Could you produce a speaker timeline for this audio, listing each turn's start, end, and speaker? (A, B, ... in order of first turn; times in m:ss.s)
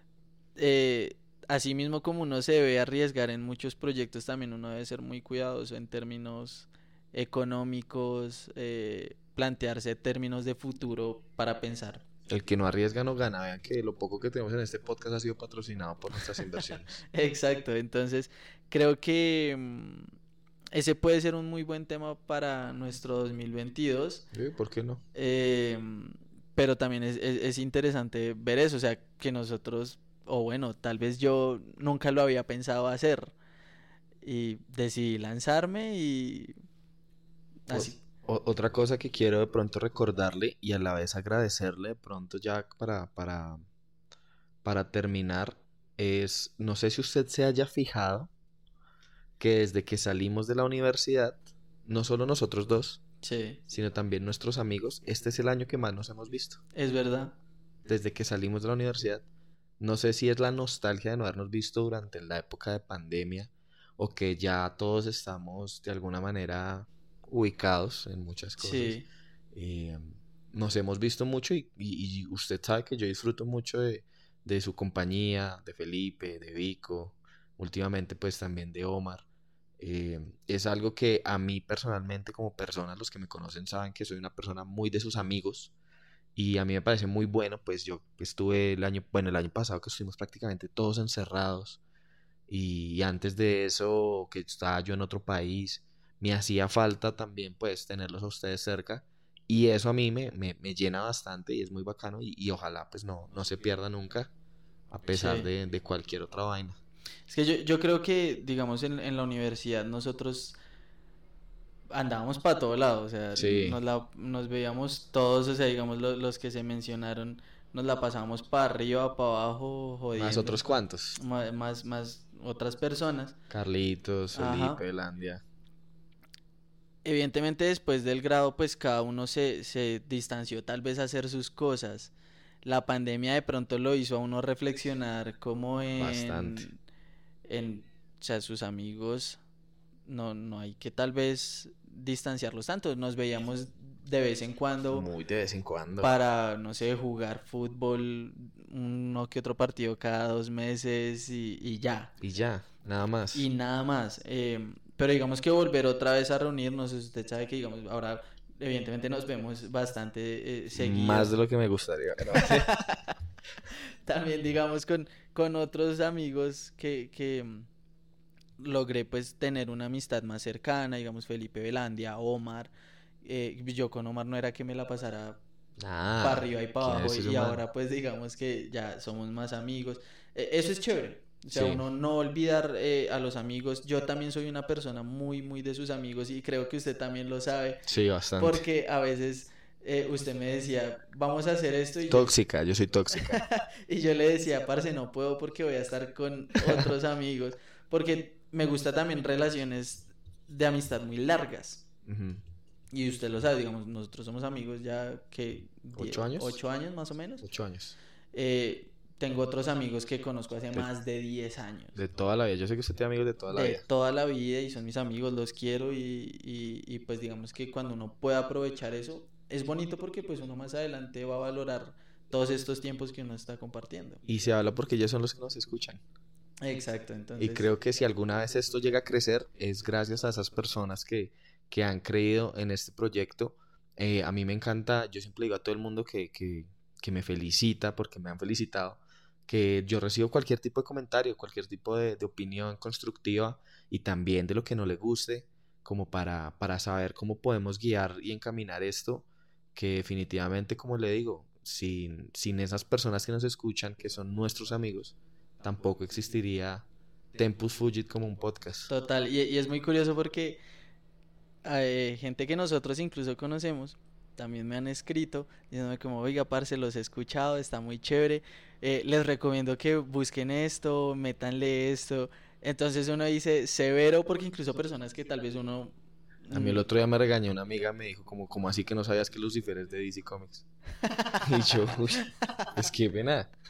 0:00.6-0:12.0 A
0:12.3-0:17.0 B
0:17.1-0:20.1 A
0:20.7-0:24.2 A
0:24.3-0:25.0 B
0:25.1-0:33.3 A
0:34.2-0:36.5 A
0:37.7-0:38.0 A
0:37.7-0:43.6 B
0:44.6-0:48.3 B
0:49.4-0:53.0 B
0:53.2-0:53.6 A
0:53.7-0:56.6 B
0:56.7-0:57.4 A
0:57.8-0:59.2 B
0:59.8-1:09.0 B
1:08.6-1:09.0 A
1:09.5-1:19.2 B
1:19.8-1:25.7 B
1:26.4-1:31.8 B
1:32.5-1:44.3 B
1:44.9-1:46.8 B
1:45.1-1:45.5 A
1:47.3-1:50.6 A
1:51.9-2:00.6 A
1:53.3-1:53.8 B
2:00.1-2:01.2 B
2:01.1-2:03.4 A
2:03.5-2:05.4 B
2:04.3-2:04.8 A
2:07.0-2:12.1 A
2:12.6-2:16.7 A
2:16.0-2:16.7 B
2:17.5-2:19.4 A
2:20.1-2:25.1 A
2:24.9-2:26.1 B
2:26.0-2:32.1 A
2:32.2-2:33.5 B
2:33.3-2:41.3 A
2:40.8-2:42.7 B
2:42.3-2:43.1 A
2:43.7-2:47.7 A
2:48.6-2:55.4 A
2:55.8-2:57.6 B
2:56.2-3:07.8 A
3:01.5-3:01.8 B
3:07.8-3:08.6 B
3:08.4-3:12.3 A
3:12.1-3:13.4 B
3:13.3-3:21.8 A
3:22.0-3:22.4 B
3:22.9-3:27.4 A
3:25.9-3:26.6 B
3:27.4-3:27.9 B
3:28.3-3:32.0 A
3:32.0-3:33.8 B
3:33.5-3:44.2 A
3:44.2-3:46.0 B
3:46.6-3:47.7 A
3:47.4-4:18.9 B
4:18.9-4:20.6 A
4:21.6-4:35.9 A
4:36.4-4:36.8 A
4:36.5-4:40.6 B
4:41.0-4:41.7 A
4:41.4-4:43.5 B
4:42.2-4:42.7 A